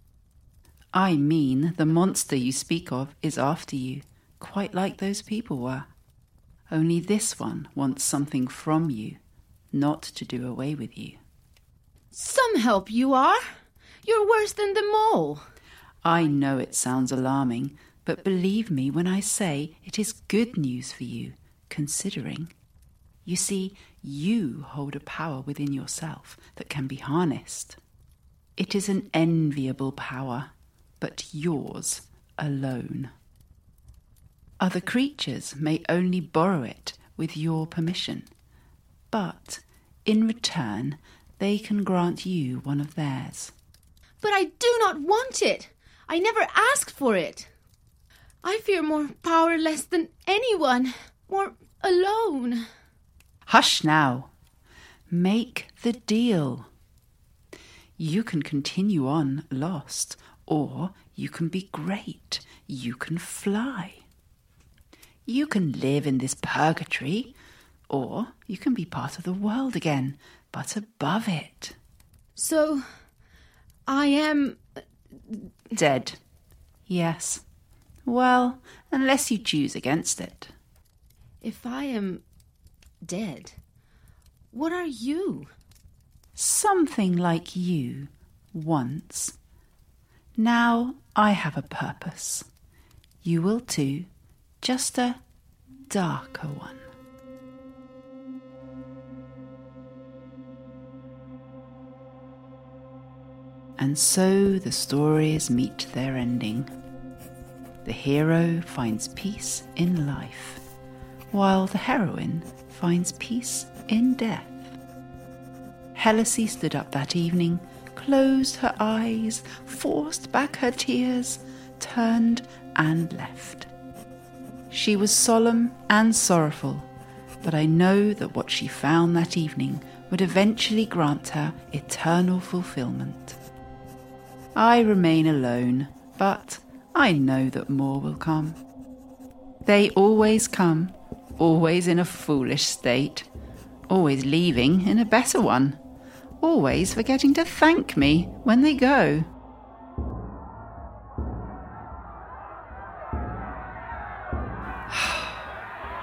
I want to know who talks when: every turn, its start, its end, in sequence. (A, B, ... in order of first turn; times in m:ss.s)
0:00.9-0:05.9 A
0:06.7-0:09.2 A
0:09.7-0:11.2 A
0:12.1-0:13.5 B
0:14.0-0:15.4 B
0:16.0-0:22.5 A
0:23.2-0:27.8 A
0:28.6-0:33.1 A
0:34.6-0:38.3 A
0:39.1-0:43.5 A
0:44.2-0:47.5 B
0:48.4-0:52.7 B
0:53.5-0:54.3 A
0:55.1-0:56.7 A
0:58.0-1:04.0 A
1:05.3-1:07.4 A
1:07.9-1:11.8 A
1:12.4-1:12.8 B
1:13.9-1:14.6 B
1:15.3-1:15.5 B
1:15.8-1:16.2 A
1:16.9-1:17.4 A
1:18.0-1:20.5 A
1:21.4-1:22.2 B
1:23.0-1:23.6 B
1:24.5-1:25.5 B
1:26.4-1:29.4 A
1:30.4-1:32.5 A
1:33.2-1:34.1 A
1:34.6-1:35.2 A
1:35.9-1:36.9 A
1:43.8-1:46.7 A
1:47.8-1:50.6 A
1:51.3-1:54.8 A
1:56.0-2:03.7 A
2:04.7-2:06.9 A
2:07.4-2:13.4 A
2:14.6-2:18.6 A
2:19.6-2:23.3 A
2:23.9-2:25.8 A
2:26.4-2:29.3 A
2:34.9-2:35.4 A